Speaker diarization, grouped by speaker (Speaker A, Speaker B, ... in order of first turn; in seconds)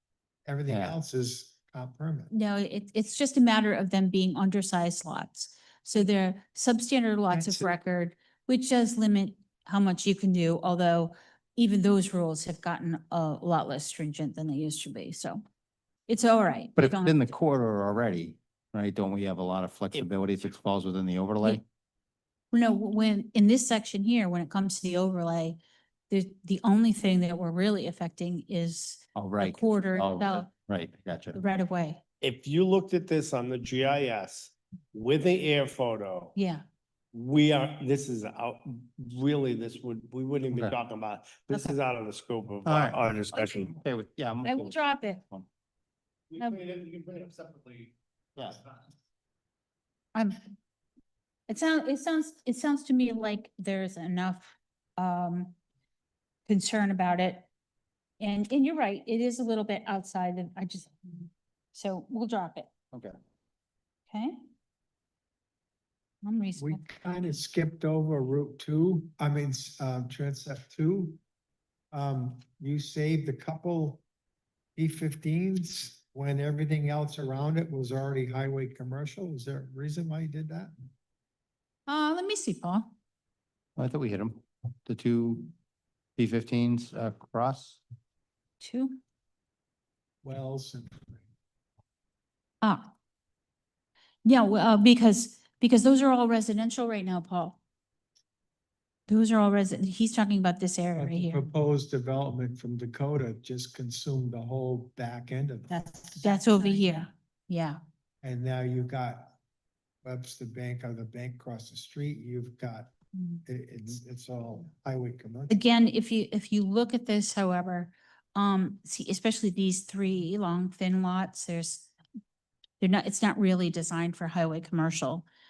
Speaker A: 0.5-2.3, 7.3-7.7, 66.6-71.2, 71.9-74.0, 74.8-80.7, 90.2-91.2, 101.0-106.8, 108.2-109.4, 110.0-112.9, 113.5-115.6
Speaker B: 0.7-1.0, 16.8-21.6, 29.1-31.4, 42.6-45.5, 83.8-85.5, 86.2-87.8
Speaker C: 2.3-15.4, 16.1-17.3, 22.5-25.6, 26.1-30.5, 31.3-32.0, 36.4-36.6, 44.4-45.2, 51.5-55.5, 56.5-57.5, 58.2-61.1, 61.7-62.7, 64.1-64.4, 66.2-66.8, 81.9-82.9, 88.6-89.0, 92.6-92.9, 94.2-97.6, 99.1-101.5, 105.7-107.8, 115.5-121.9, 122.8-125.3
Speaker D: 32.2-36.4, 37.1-43.7, 46.3-47.9